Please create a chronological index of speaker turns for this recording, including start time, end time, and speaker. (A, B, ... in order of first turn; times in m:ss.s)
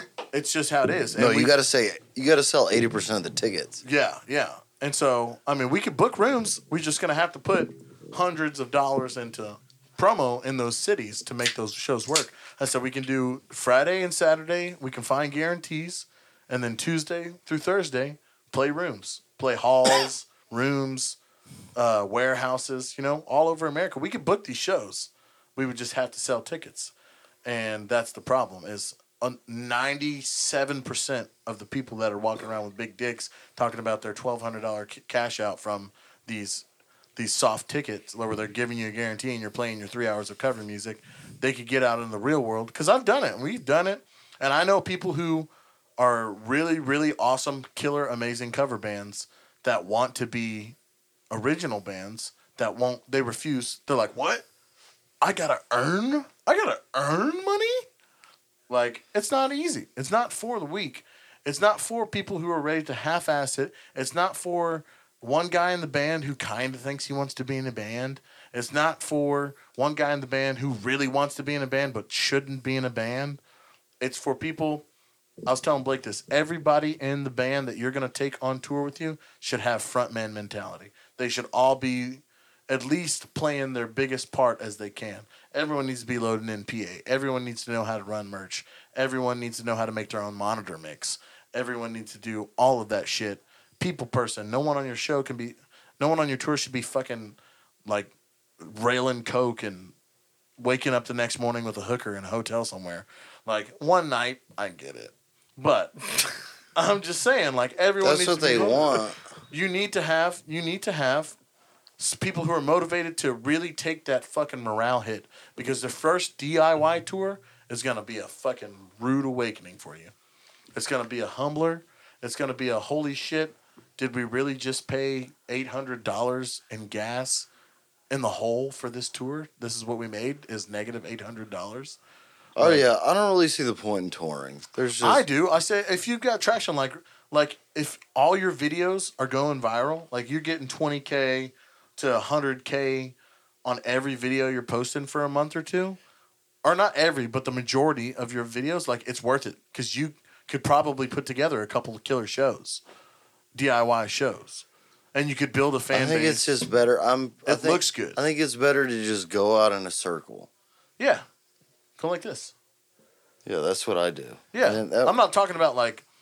0:00.3-0:01.5 A
0:01.2-0:03.8 B
0:03.8-0:21.2 A
0:21.8-0:26.9 A
0:27.4-0:36.6 A
0:37.2-0:50.8 A
0:51.3-0:54.4 A
0:55.2-0:57.8 A
0:58.7-1:13.4 A
1:14.0-1:14.8 A
1:15.4-1:39.9 A
1:40.6-1:46.1 A
1:46.8-1:51.3 A
1:48.0-1:49.2 B
1:52.0-2:00.1 A
2:00.7-2:07.5 A
2:08.1-2:12.0 A
2:12.6-2:15.2 B
2:12.6-2:12.8 A
2:15.0-2:26.0 A
2:26.6-2:32.8 A
2:33.5-2:36.5 A
2:35.9-2:40.5 B
2:37.4-2:38.2 A
2:41.0-2:41.2 A
2:42.0-2:42.5 A
2:43.4-2:45.1 B
2:44.5-2:46.0 A